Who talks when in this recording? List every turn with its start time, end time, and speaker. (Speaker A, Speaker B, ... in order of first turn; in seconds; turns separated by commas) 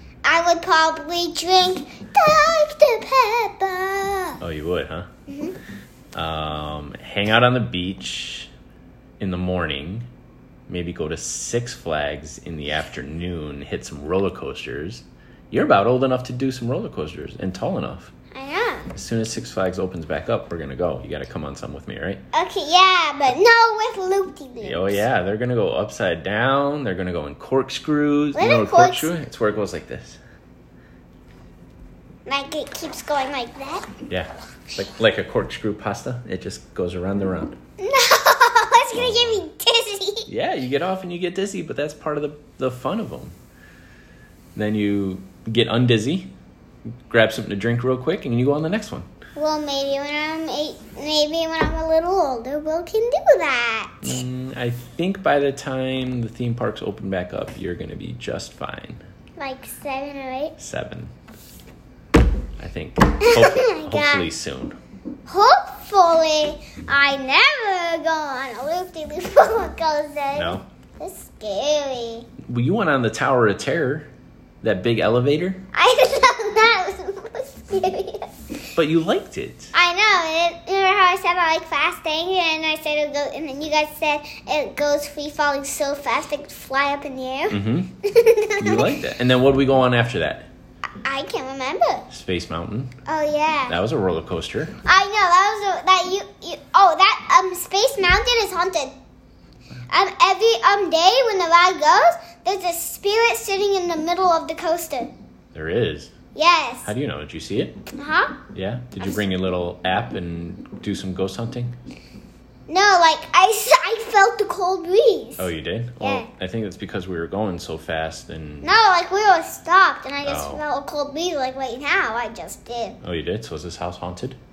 Speaker A: 0.2-4.4, Speaker B: 4.4-5.1, Speaker A: 5.3-5.6, Speaker B: 6.1-8.5, Speaker B: 9.2-10.1, Speaker B: 10.7-18.1, Speaker A: 18.3-18.9, Speaker B: 18.9-22.2, Speaker A: 22.3-25.1, Speaker B: 24.6-30.2, Speaker A: 28.4-29.1, Speaker A: 32.2-33.9, Speaker B: 34.1-37.6, Speaker A: 37.8-40.3, Speaker B: 39.0-39.4, Speaker B: 40.3-43.4, Speaker B: 44.5-46.3, Speaker B: 47.1-49.1, Speaker A: 49.4-54.2, Speaker B: 54.0-59.0, Speaker A: 59.4-60.5, Speaker B: 60.6-61.1, Speaker B: 62.6-64.8, Speaker A: 63.2-64.3, Speaker A: 65.3-72.3, Speaker B: 70.3-70.6, Speaker B: 72.5-74.1, Speaker B: 74.6-75.6, Speaker A: 75.7-78.5, Speaker B: 78.8-79.7, Speaker A: 79.7-88.9, Speaker B: 87.5-88.0, Speaker B: 88.6-90.5, Speaker A: 91.0-92.1, Speaker B: 92.1-92.9, Speaker A: 93.0-93.8, Speaker B: 93.7-94.8, Speaker A: 94.8-99.0, Speaker A: 99.9-105.1, Speaker B: 105.5-106.1, Speaker A: 106.3-106.9, Speaker B: 106.8-107.8, Speaker A: 108.0-108.4, Speaker B: 108.5-111.8, Speaker A: 112.7-116.3, Speaker B: 115.4-118.8, Speaker A: 118.6-123.0, Speaker B: 120.2-120.6, Speaker B: 123.0-124.4